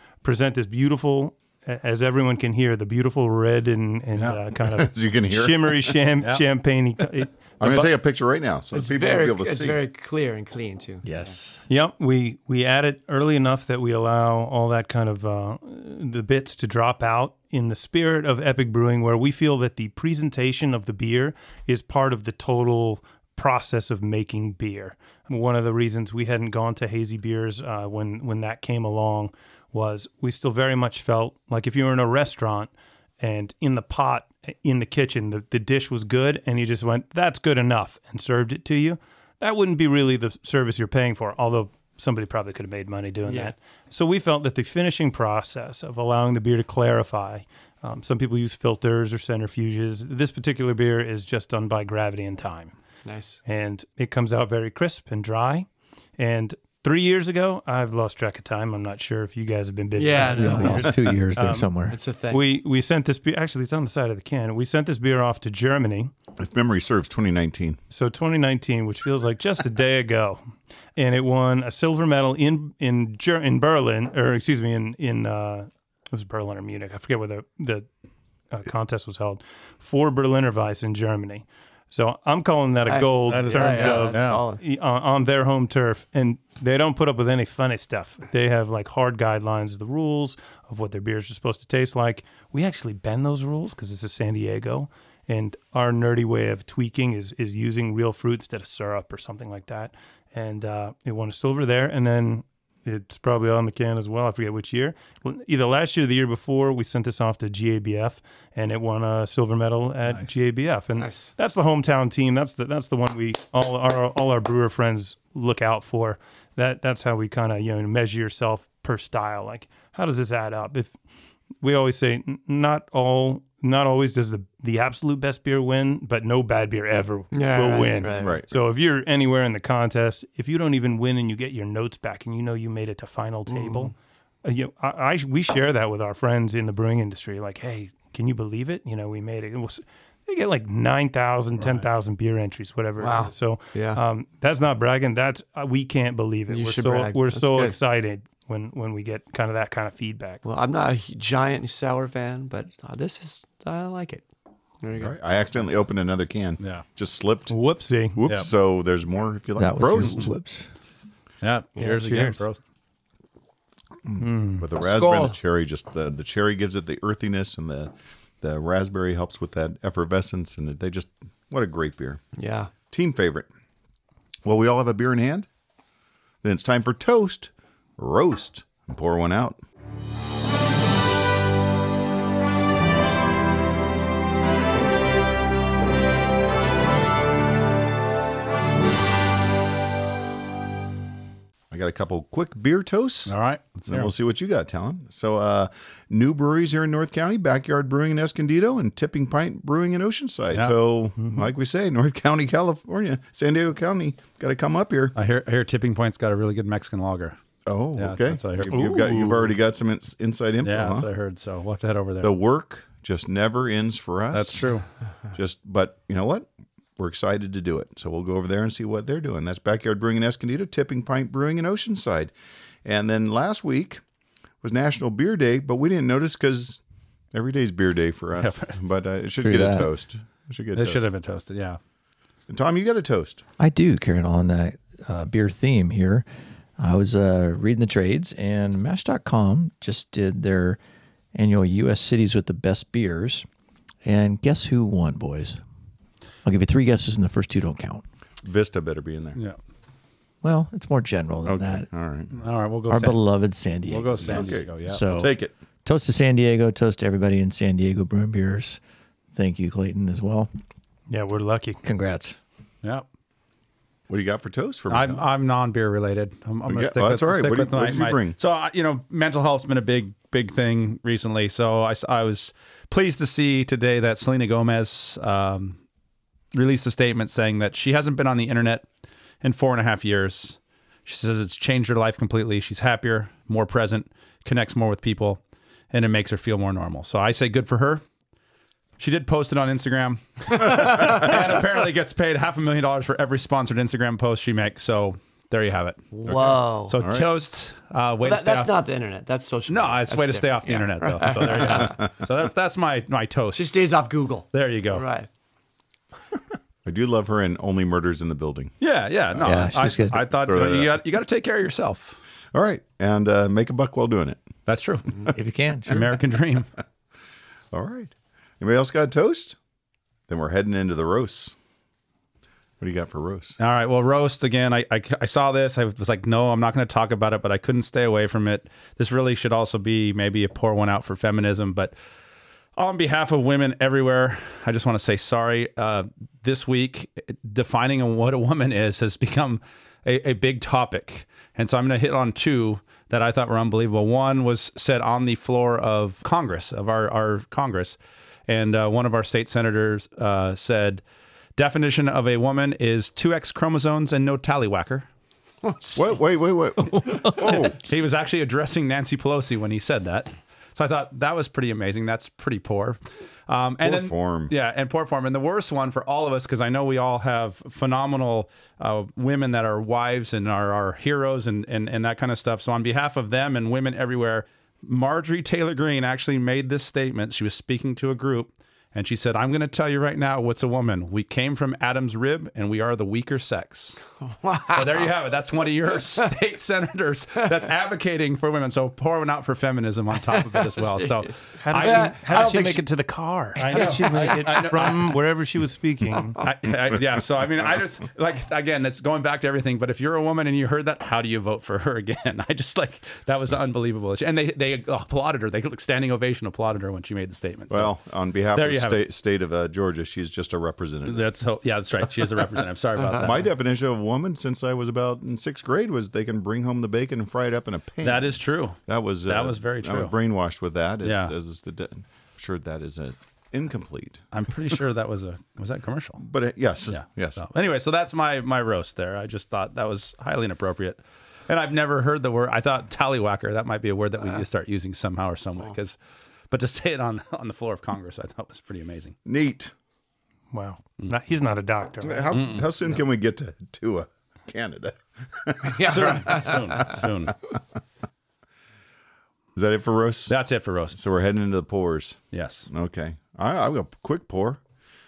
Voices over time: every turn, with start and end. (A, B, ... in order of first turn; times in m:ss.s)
0:00.2-0:07.9 A
0:04.7-0:06.0 B
0:07.6-0:09.8 B
0:08.7-0:11.0 C
0:11.0-0:11.6 D
0:11.7-0:52.7 A
0:43.3-0:43.5 C
0:53.0-0:53.4 C
0:53.4-1:01.7 A
1:00.0-1:01.0 C
1:00.2-1:02.0 D
1:01.9-1:02.4 C
1:02.3-1:06.1 A
1:06.4-1:07.8 B
1:07.9-1:10.4 A
1:11.0-1:17.9 A
1:18.5-2:00.9 A
1:22.9-1:24.6 C
1:23.3-1:24.4 E
1:51.0-1:51.3 C
2:01.6-2:30.4 A
2:07.3-2:08.4 C
2:08.1-2:08.5 B
2:13.5-2:13.9 C
2:23.0-2:24.0 C
2:26.5-2:27.8 C
2:30.4-2:34.2 C
2:34.8-2:35.2 C
2:35.0-2:37.5 B
2:37.5-2:38.2 A
2:38.2-2:40.3 B
2:39.6-2:40.7 D
2:41.4-2:42.6 E
2:41.8-2:42.4 A
2:44.1-2:52.2 B
2:44.2-2:44.6 A
2:44.8-2:45.3 C
2:52.4-2:52.7 C
2:52.9-2:53.5 B
2:54.4-2:55.5 B
2:56.4-2:59.6 B
3:11.7-3:13.4 B
3:13.2-3:14.1 E
3:13.9-3:25.1 B
3:21.2-3:21.4 A
3:25.1-3:27.4 E
3:27.6-3:31.1 B
3:28.0-3:28.8 E
3:28.7-3:29.5 A
3:30.6-3:32.3 E
3:32.2-3:34.7 B
3:34.3-3:34.8 E
3:35.3-3:42.3 B
3:42.8-3:44.0 B
3:44.6-3:46.8 B
3:47.3-3:51.0 B
3:48.4-3:48.8 E
3:49.4-3:49.9 D
3:50.7-3:51.8 E
3:52.5-3:53.4 B
3:53.6-3:56.2 D
3:56.8-4:00.8 D
4:01.3-4:03.4 D
4:04.0-4:05.6 D
4:06.4-4:08.0 D
4:08.4-4:09.4 B
4:10.4-4:11.9 D
4:11.4-4:12.3 B
4:12.3-4:13.2 E
4:12.9-4:15.3 D
4:13.8-4:15.0 E
4:14.2-4:15.5 B
4:15.8-4:18.8 D
4:19.3-4:20.5 D
4:21.1-4:21.8 A
4:21.8-4:22.4 D
4:24.1-4:25.2 B
4:24.9-4:35.8 E
4:26.6-4:28.4 B
4:36.5-4:38.9 E
4:39.4-4:45.4 E
4:45.9-4:48.0 E
4:49.0-4:56.0 E
4:56.1-4:56.9 C
4:56.2-4:57.3 B
4:56.9-4:58.7 E
4:58.2-5:02.0 C
4:59.7-5:03.7 E
5:03.5-5:05.3 C
5:04.5-5:05.0 E
5:06.8-5:08.7 B
5:08.8-5:12.2 E
5:09.4-5:10.2 D
5:10.4-5:11.0 B
5:12.5-5:14.4 B
5:14.7-5:15.3 E
5:15.3-5:16.0 D
5:15.8-5:16.7 E
5:17.7-5:19.6 B
5:20.3-5:21.5 B
5:22.8-5:23.6 B
5:23.6-5:31.9 E
5:32.8-5:48.0 E
5:48.5-5:51.0 E
5:51.6-5:55.1 E
5:55.9-5:57.8 B
5:57.1-6:24.0 E
6:03.8-6:04.5 B
6:24.3-6:25.1 C
6:24.7-6:32.6 E
6:30.3-6:32.8 C
6:31.6-6:36.4 A
6:33.6-6:35.2 E
6:33.6-6:34.6 C
6:36.4-6:47.9 E
6:47.7-6:51.2 B
6:48.5-6:49.0 E
6:51.0-6:53.4 E
6:53.2-7:04.2 B
6:58.0-7:00.1 E
7:01.0-7:01.3 E
7:04.3-7:06.2 E
7:06.2-7:07.4 B
7:06.9-7:15.9 E
7:16.5-7:19.2 E
7:19.2-7:19.7 B
7:20.5-7:22.4 A
7:22.0-7:26.2 B
7:22.3-7:22.7 E
7:25.7-7:27.0 C
7:25.8-7:27.4 E
7:29.5-7:30.3 B
7:30.3-7:31.0 E
7:30.9-7:34.6 B
7:32.3-7:32.7 E